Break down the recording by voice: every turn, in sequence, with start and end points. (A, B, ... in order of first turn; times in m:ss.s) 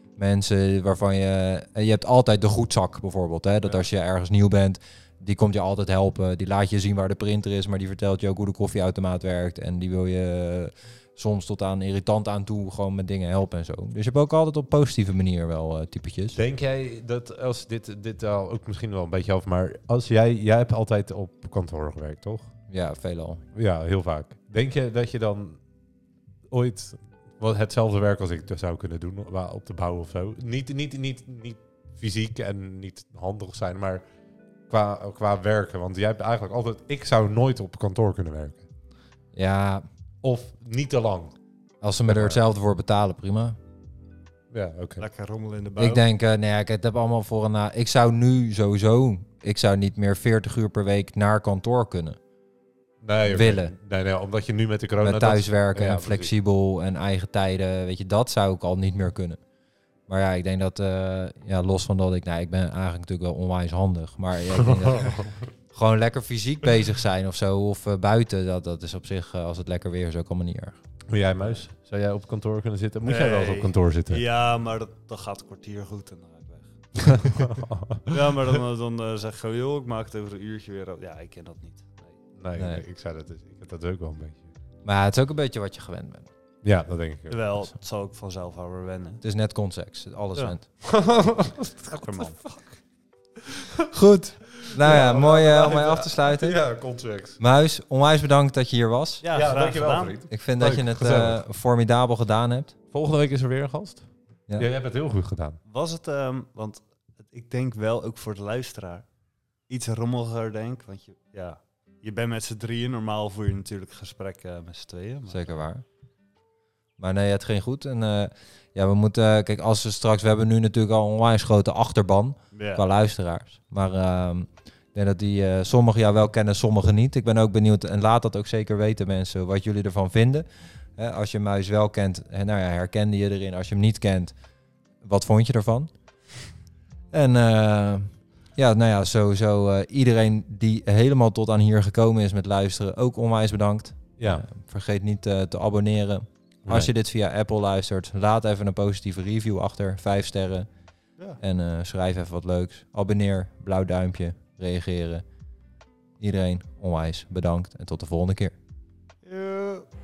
0:00.2-0:16.4 A
0:16.3-0:22.5 B
0:22.7-0:23.4 A
0:23.5-0:25.6 B
0:26.5-0:34.0 B
0:34.7-0:38.7 B
0:39.3-0:39.8 A
0:40.2-0:41.4 B
0:41.8-0:43.6 A
0:42.1-0:42.4 B
0:44.5-0:45.0 B
0:45.0-0:46.0 C
0:45.8-0:52.2 A
0:53.0-0:56.3 B
0:53.3-0:53.7 A
0:55.0-0:59.4 A
1:00.1-1:10.8 A
1:04.6-1:05.4 B
1:11.1-1:14.2 B
1:13.0-1:17.5 C
1:17.0-1:18.0 B
1:18.0-1:22.2 C
1:22.4-1:24.5 B
1:22.6-1:22.8 A
1:24.8-1:26.3 A
1:26.6-1:27.4 B
1:27.3-1:29.2 C
1:29.2-1:30.6 A
1:30.8-1:32.6 B
1:31.9-1:32.5 C
1:33.9-1:36.6 A
1:34.6-1:37.4 B
1:37.4-1:39.2 A
1:39.2-1:40.2 C
1:39.3-1:41.4 B
1:40.3-1:42.7 A
1:42.9-1:45.6 B
1:45.7-1:46.8 C
1:47.3-1:49.0 C
1:49.7-1:55.6 C
1:55.3-1:55.8 A
1:57.0-2:14.3 A
2:02.5-2:02.8 C
2:15.0-2:15.9 A
2:17.1-2:30.7 A
2:24.2-2:24.4 B
2:26.6-2:26.9 B
2:31.4-2:35.2 A
2:36.2-2:38.5 A
2:39.2-2:39.8 C